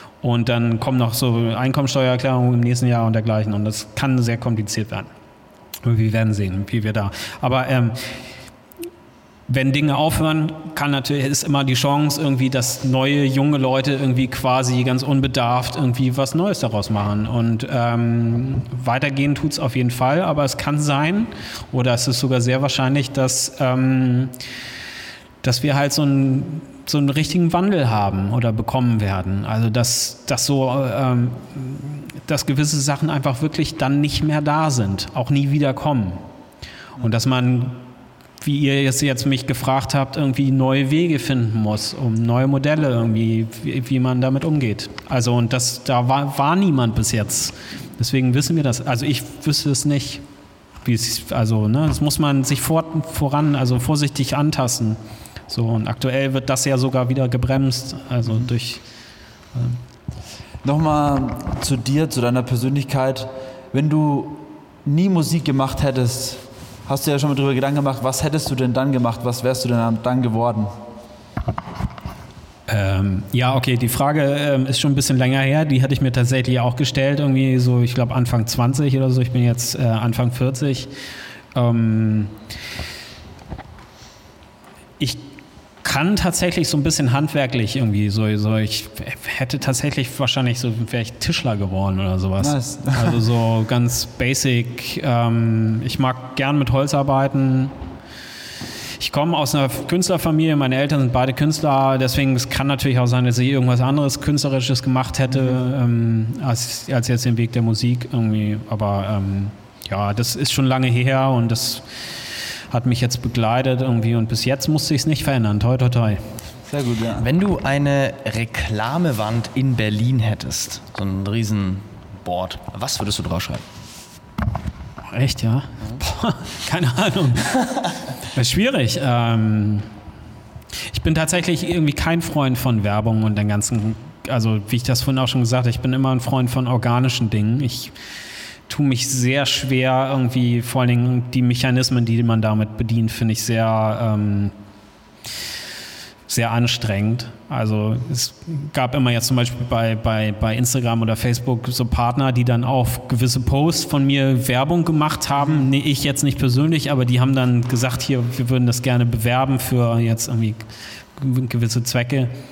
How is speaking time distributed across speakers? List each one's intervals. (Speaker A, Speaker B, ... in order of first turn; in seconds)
Speaker A: 0.2-5.1, 5.8-8.0, 9.5-24.3, 25.4-36.2, 37.0-37.8, 38.4-50.2, 50.8-55.0, 55.5-58.8, 59.5-59.8, 72.7-80.9, 81.5-82.3, 85.8-97.7, 99.0-111.8, 112.7-116.3, 125.1-127.6, 128.2-129.9, 130.9-137.9, 138.7-144.5, 146.3-162.3
Speaker B: 60.6-70.7, 92.4-93.2, 105.3-105.6, 116.7-117.3
Speaker C: 117.2-123.6